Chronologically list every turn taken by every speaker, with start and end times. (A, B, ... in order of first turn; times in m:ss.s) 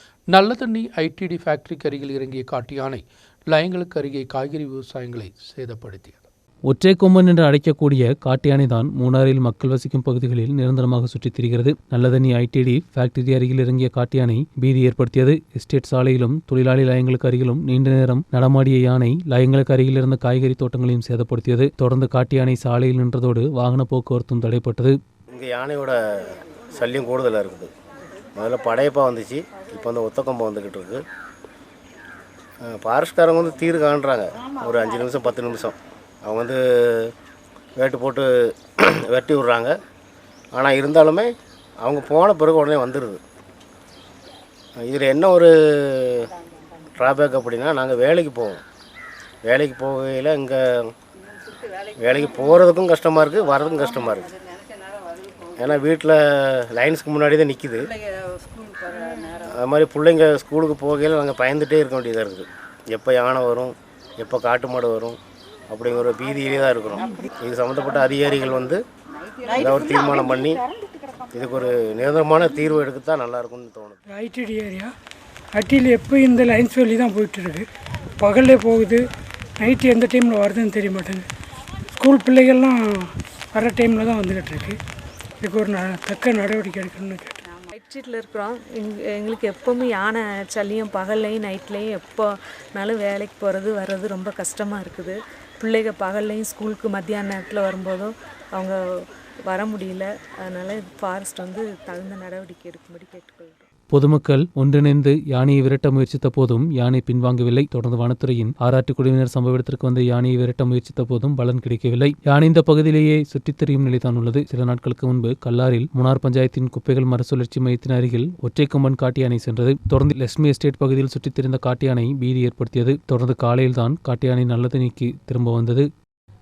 0:00.3-0:06.2 A
0:06.7-0:24.9 B
0:25.3-0:27.7 C
0:28.4-0:31.0 C
0:32.6-0:37.1 C
0:37.8-0:39.8 C
0:40.5-0:41.3 C
0:41.8-0:43.2 C
0:44.8-0:46.3 C
0:47.0-0:48.6 C
0:49.4-0:50.9 C
0:52.0-0:54.3 C
0:55.6-0:57.9 C
0:59.3-1:05.2 C
1:05.7-1:08.8 C
1:09.5-1:10.6 C
1:11.3-1:14.0 C
1:14.1-1:14.9 D
1:15.5-1:17.6 D
1:18.2-1:19.0 D
1:19.6-1:21.2 D
1:21.9-1:24.8 D
1:25.4-1:27.3 D
1:27.7-1:43.6 E
1:43.9-2:05.8 B